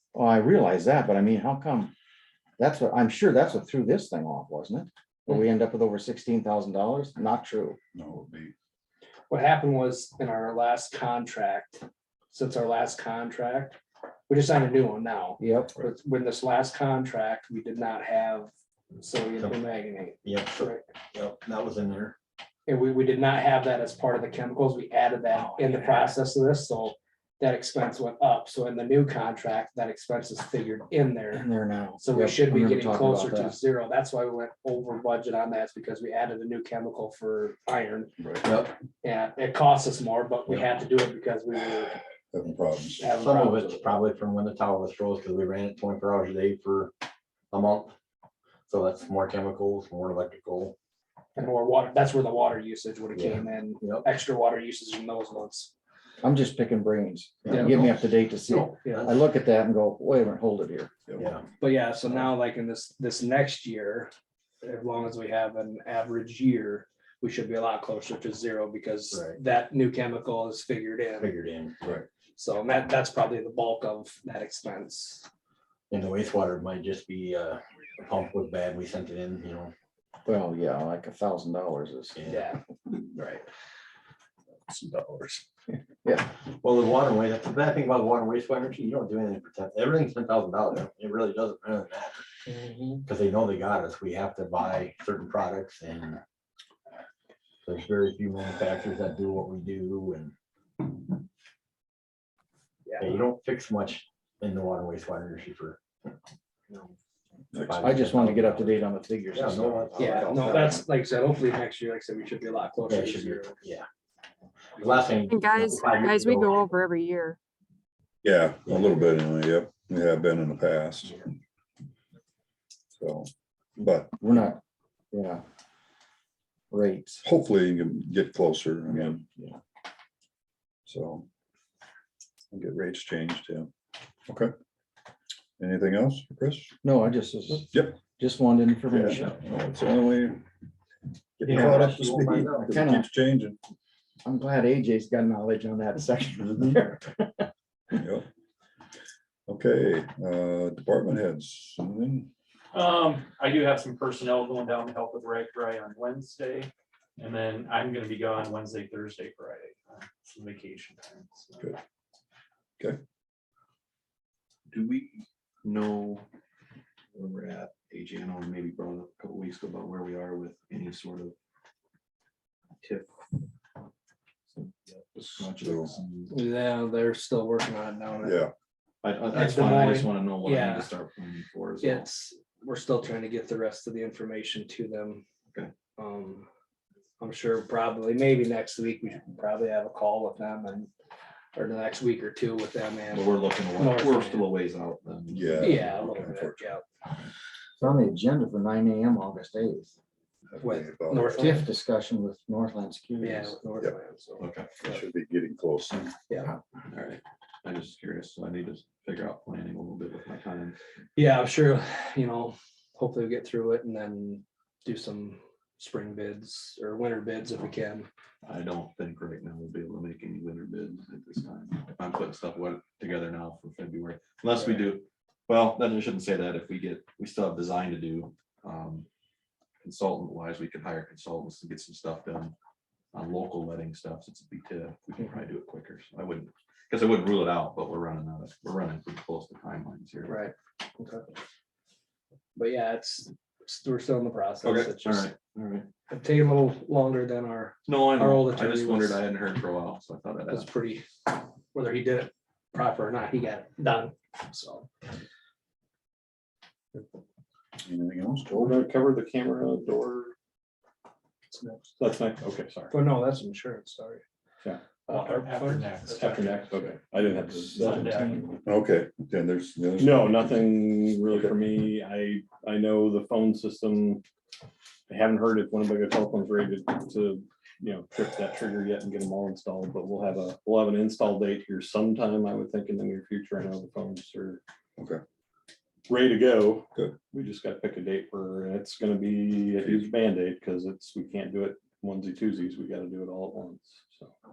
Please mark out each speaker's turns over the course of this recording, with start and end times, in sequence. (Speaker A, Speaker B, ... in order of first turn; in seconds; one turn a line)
Speaker A: 0.1-1.9
Speaker A: 2.6-7.8
Speaker B: 7.9-8.5
Speaker C: 9.3-20.8
Speaker A: 15.4-15.8
Speaker D: 20.2-22.2
Speaker C: 22.7-31.4
Speaker A: 31.3-33.5
Speaker C: 32.0-38.2
Speaker B: 38.2-38.5
Speaker D: 38.5-38.7
Speaker C: 39.0-42.0
Speaker B: 42.3-43.1
Speaker C: 43.0-43.9
Speaker D: 43.2-46.9
Speaker D: 47.5-48.0
Speaker D: 48.7-50.8
Speaker C: 51.4-55.7
Speaker D: 53.1-54.0
Speaker A: 56.2-60.9
Speaker D: 57.5-59.3
Speaker D: 61.2-61.4
Speaker C: 61.6-64.1
Speaker C: 64.6-71.3
Speaker D: 69.1-69.4
Speaker D: 71.2-71.8
Speaker C: 72.3-75.3
Speaker D: 75.9-79.7
Speaker A: 80.3-82.2
Speaker D: 82.2-82.4
Speaker C: 82.3-82.6
Speaker C: 83.1-83.4
Speaker C: 84.7-85.4
Speaker A: 86.0-86.3
Speaker D: 86.4-92.2
Speaker C: 92.5-93.0
Speaker D: 93.0-96.2
Speaker D: 97.6-100.3
Speaker C: 102.8-103.2
Speaker D: 103.0-105.8
Speaker B: 107.5-108.0
Speaker D: 107.5-110.7
Speaker A: 107.8-110.8
Speaker C: 110.0-113.6
Speaker D: 112.9-113.9
Speaker D: 114.8-116.7
Speaker E: 115.3-117.4
Speaker B: 118.2-121.3
Speaker D: 118.6-119.2
Speaker B: 123.0-124.5
Speaker A: 124.2-124.6
Speaker A: 125.1-125.4
Speaker A: 126.7-127.2
Speaker B: 127.2-129.3
Speaker B: 130.9-131.2
Speaker B: 132.5-133.7
Speaker B: 135.6-136.7
Speaker A: 136.8-139.4
Speaker B: 137.7-138.0
Speaker B: 138.9-140.4
Speaker B: 141.4-143.6
Speaker D: 141.5-142.7
Speaker A: 141.5-143.1
Speaker A: 144.2-147.5
Speaker B: 146.4-146.8
Speaker B: 149.5-152.3
Speaker F: 152.7-156.4
Speaker F: 157.2-159.5
Speaker F: 160.3-161.4
Speaker G: 164.7-166.2
Speaker G: 167.1-171.3
Speaker G: 172.8-173.1
Speaker G: 174.5-176.3
Speaker B: 175.6-175.9
Speaker C: 176.3-178.4
Speaker B: 178.2-178.5
Speaker G: 179.0-182.1
Speaker C: 179.3-180.9
Speaker C: 181.8-185.2
Speaker C: 186.0-186.5
Speaker C: 187.2-190.9
Speaker C: 191.6-194.5
Speaker G: 193.1-196.0
Speaker B: 195.3-196.7
Speaker C: 195.6-196.9
Speaker A: 197.8-200.0
Speaker B: 200.6-201.4
Speaker C: 200.6-201.7
Speaker A: 201.4-203.6
Speaker C: 203.2-205.0
Speaker G: 204.4-204.7
Speaker B: 204.8-206.1
Speaker C: 206.3-206.6
Speaker G: 206.9-210.8
Speaker C: 211.2-218.1
Speaker G: 218.4-229.1
Speaker G: 229.8-232.5
Speaker G: 233.1-240.4
Speaker C: 240.2-241.3
Speaker C: 242.6-245.3
Speaker G: 244.6-245.9
Speaker C: 246.1-249.2
Speaker G: 247.9-250.7
Speaker C: 250.5-254.9
Speaker B: 257.8-258.8
Speaker H: 258.5-260.3
Speaker C: 261.5-261.9
Speaker H: 262.0-263.0
Speaker C: 262.9-264.2
Speaker C: 265.1-265.9
Speaker F: 265.1-266.8
Speaker H: 266.0-268.5
Speaker F: 267.6-268.2
Speaker B: 268.6-270.7
Speaker H: 270.0-274.2
Speaker B: 271.3-271.6
Speaker H: 275.1-284.6
Speaker H: 286.1-294.3
Speaker B: 286.9-287.2
Speaker B: 289.8-290.1